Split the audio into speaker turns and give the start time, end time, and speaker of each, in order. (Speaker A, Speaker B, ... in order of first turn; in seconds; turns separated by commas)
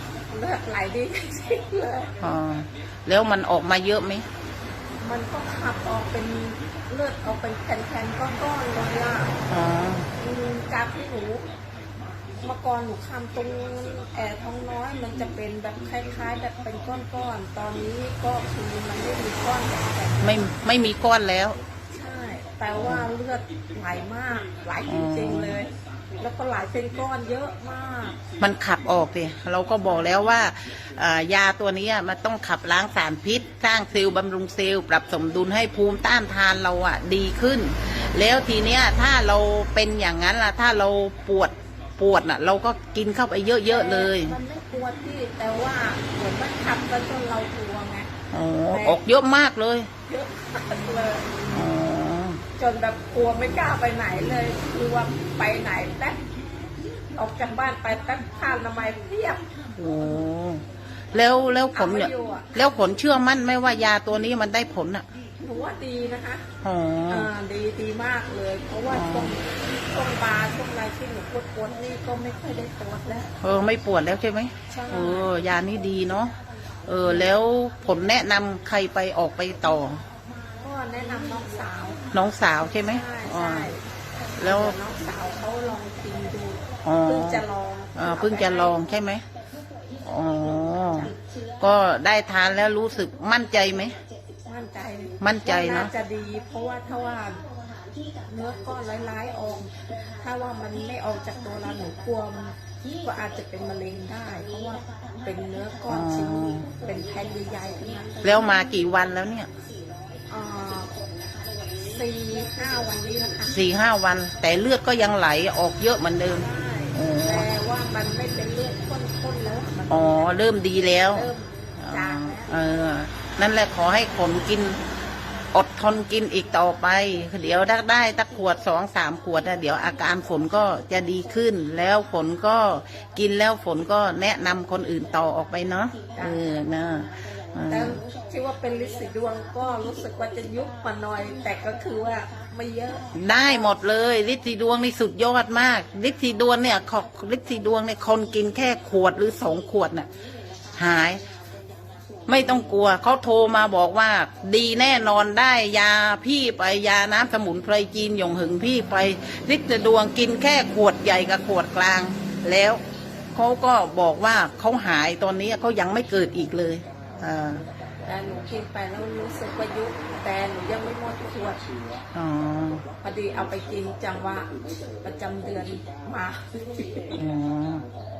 Speaker A: 0.3-2.1, Speaker B: 2.2-4.3, Speaker A: 5.0-9.4, Speaker B: 9.5-10.1, Speaker A: 10.1-11.4, Speaker A: 12.4-20.5, Speaker B: 20.2-21.6, Speaker A: 21.9-28.2, Speaker B: 24.9-25.7, Speaker B: 28.4-44.4, Speaker A: 43.7-48.1, Speaker B: 48.3-49.9, Speaker A: 48.7-49.0, Speaker A: 50.1-51.4, Speaker B: 51.5-52.4, Speaker A: 52.6-56.2, Speaker A: 57.1-59.4, Speaker B: 59.8-65.0, Speaker A: 61.7-62.5, Speaker A: 65.4-66.5, Speaker B: 66.6-67.3, Speaker A: 67.1-73.3, Speaker B: 68.9-69.4, Speaker B: 73.4-76.3, Speaker A: 74.7-75.3, Speaker B: 76.9-80.0, Speaker A: 80.6-82.0, Speaker B: 82.1-83.7, Speaker A: 82.8-83.8, Speaker A: 84.4-88.8, Speaker B: 84.4-84.8, Speaker B: 86.8-87.4, Speaker B: 88.0-89.2, Speaker B: 90.0-94.0, Speaker A: 94.5-97.4, Speaker B: 95.2-95.9, Speaker A: 98.3-108.5, Speaker B: 105.9-106.7, Speaker B: 108.2-109.5, Speaker A: 110.3-110.9, Speaker A: 111.9-113.6, Speaker B: 113.5-117.5, Speaker A: 116.2-120.4, Speaker B: 119.9-124.8, Speaker A: 121.1-122.5, Speaker B: 125.5-138.0, Speaker A: 136.1-136.4, Speaker A: 137.7-143.7, Speaker B: 143.1-150.1, Speaker B: 150.8-151.2, Speaker B: 152.3-162.8, Speaker B: 163.3-167.6, Speaker A: 168.0-171.6, Speaker B: 172.1-172.8, Speaker A: 173.0-177.2, Speaker B: 177.1-177.8